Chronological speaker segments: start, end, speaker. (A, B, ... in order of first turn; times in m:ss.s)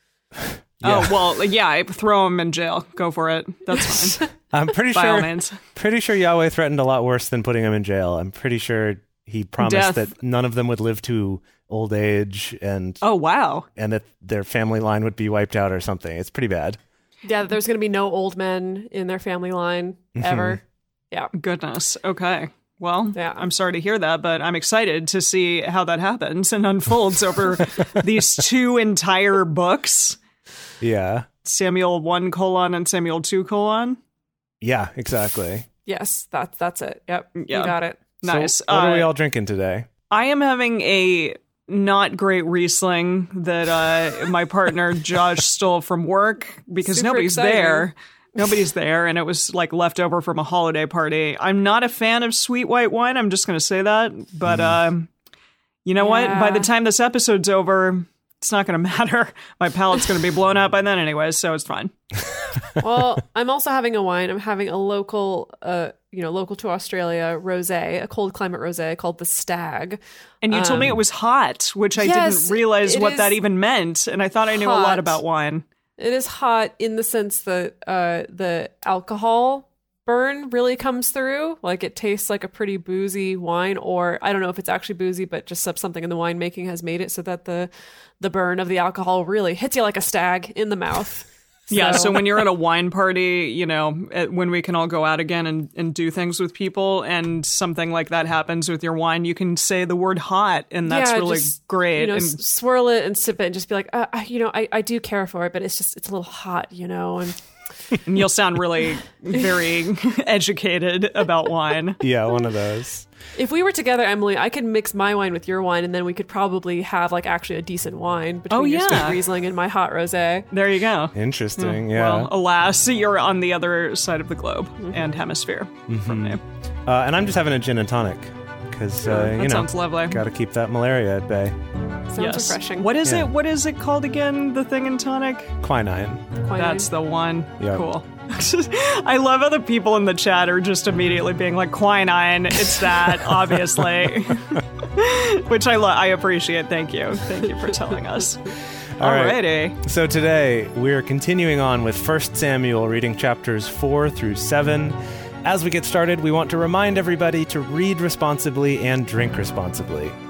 0:00.8-0:01.2 A
0:00.8-0:04.2 B
0:03.8-0:04.3 C
0:04.5-0:13.0 A
0:04.9-0:05.6 B
0:09.6-0:10.1 B
0:13.0-0:13.7 B
0:13.8-0:16.8 A
0:17.2-0:21.3 C
0:20.2-0:20.6 A
0:21.3-0:30.2 B
0:23.2-0:23.5 C
0:30.8-0:31.3 A
0:31.4-0:34.0 B
0:34.6-0:35.7 A
0:35.9-0:38.0 C
0:37.4-0:39.1 B
0:38.2-0:39.9 A
0:40.1-0:55.1 B
0:46.9-0:47.9 C
0:54.5-0:54.8 A
0:55.8-1:01.9 B
0:56.0-0:56.7 C
1:02.8-1:10.0 C
1:10.4-1:15.6 B
1:10.5-1:10.9 C
1:12.0-1:13.4 C
1:14.5-1:15.2 C
1:16.0-1:32.4 C
1:31.7-1:42.4 B
1:40.8-1:47.4 C
1:48.1-1:52.0 B
1:52.0-1:53.1 A
1:53.4-2:00.5 C
1:58.5-1:59.2 B
2:00.5-2:06.4 B
2:01.1-2:02.3 A
2:05.9-2:11.5 A
2:09.0-2:10.2 B
2:12.1-2:12.9 C
2:12.2-2:15.5 B
2:13.0-2:13.3 A
2:15.6-2:16.2 A
2:16.4-2:16.9 C
2:16.6-2:29.8 B
2:17.6-2:17.9 A
2:29.0-2:40.2 A